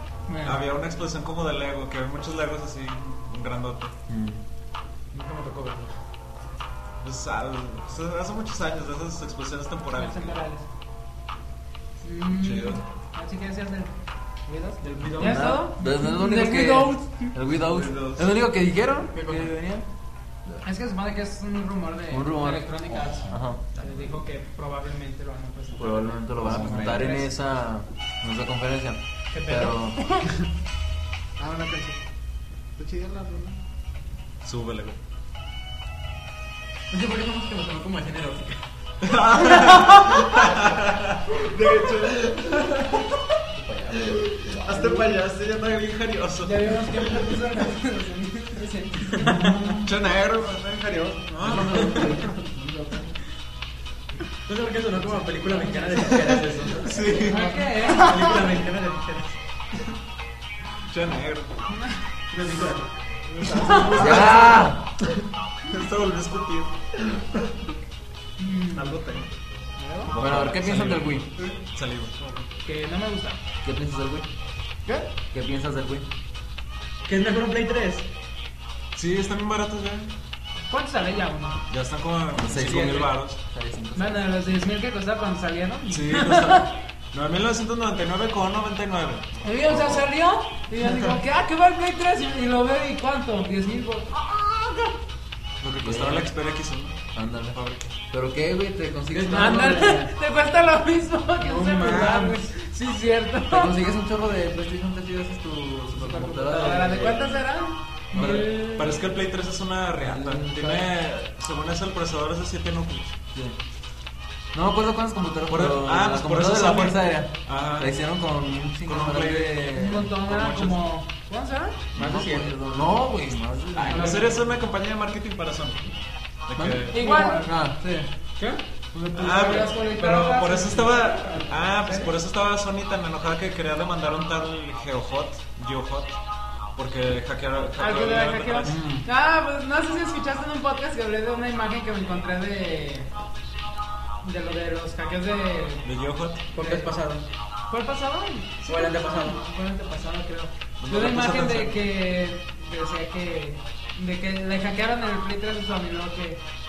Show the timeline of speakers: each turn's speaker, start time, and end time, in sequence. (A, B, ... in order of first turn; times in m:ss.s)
0:00.3-0:00.6 A
0:00.4-0:03.9 B
0:04.1-0:04.4 C
0:05.1-0:06.0 D
0:07.0-0:10.4 B
0:09.9-0:10.6 A
0:12.0-0:13.9 A
0:12.3-0:12.8 B
0:14.4-0:17.4 A
0:14.8-0:15.6 D
0:15.1-0:19.8 C
0:17.6-0:18.3 B
0:19.1-0:19.6 D
0:20.6-0:27.3 A
0:22.1-0:23.7 C
0:25.8-0:30.0 C
0:26.4-0:27.0 B
0:26.5-0:27.1 D
0:29.3-0:30.3 A
0:31.4-0:32.0 E
0:32.8-0:33.6 E
0:34.4-0:35.0 B
0:36.9-0:38.6 D
0:39.0-0:43.1 B
0:41.3-0:42.5 E
0:43.5-0:45.1 C
0:44.2-0:47.2 B
0:46.4-0:49.8 A
0:49.4-0:49.8 C
0:49.4-0:51.7 B
0:51.4-0:52.2 D
0:51.4-0:53.2 C
0:54.4-0:59.4 D
0:56.8-0:57.5 B
0:57.1-0:58.2 A
1:00.9-1:01.6 B
1:01.7-1:02.0 A
1:02.3-1:02.9 D
1:03.3-1:04.7 E
1:03.6-1:03.9 A
1:03.7-1:04.4 B
1:03.9-1:04.8 C
1:05.7-1:07.6 B
1:08.4-1:09.0 A
1:08.8-1:09.2 B
1:09.8-1:10.1 E
1:10.1-1:12.4 B
1:10.2-1:11.3 C
1:12.6-1:13.4 A
1:13.6-1:14.3 C
1:15.3-1:16.1 C
1:17.0-1:18.1 D
1:18.9-1:20.1 B
1:20.7-1:21.6 A
1:21.7-1:23.4 B
1:22.4-1:24.2 C
1:22.6-1:23.0 D
1:23.9-1:26.7 A
1:25.9-1:30.1 B
1:29.4-1:35.0 A
1:35.6-1:37.9 B
1:35.8-1:36.3 C
1:37.1-1:40.0 C
1:39.1-1:39.8 D
1:39.2-1:43.8 A
1:41.4-1:42.1 C
1:41.5-1:42.4 D
1:43.5-1:47.4 C
1:46.0-1:46.9 D
1:46.4-1:49.1 A
1:48.1-1:48.5 C
1:48.2-1:53.2 B
1:50.0-1:50.9 C
1:54.5-2:00.1 C
1:55.5-1:58.0 B
1:58.8-2:00.8 B
1:59.7-2:01.8 A
2:01.9-2:04.2 C
2:01.9-2:02.6 D
2:03.7-2:06.0 B
2:03.9-2:04.3 D
2:03.9-2:04.2 A
2:06.5-2:07.0 B
2:06.6-2:08.1 C
2:06.9-2:07.5 A
2:08.4-2:09.7 D
2:09.1-2:12.1 A
2:09.1-2:16.2 B
2:16.8-2:18.8 B
2:17.8-2:23.1 A
2:18.6-2:19.1 C
2:24.2-2:25.9 A
2:25.8-2:26.4 B
2:26.5-2:27.2 D
2:26.6-2:26.9 A
2:27.7-2:36.4 A
2:28.6-2:29.4 D
2:30.8-2:31.8 B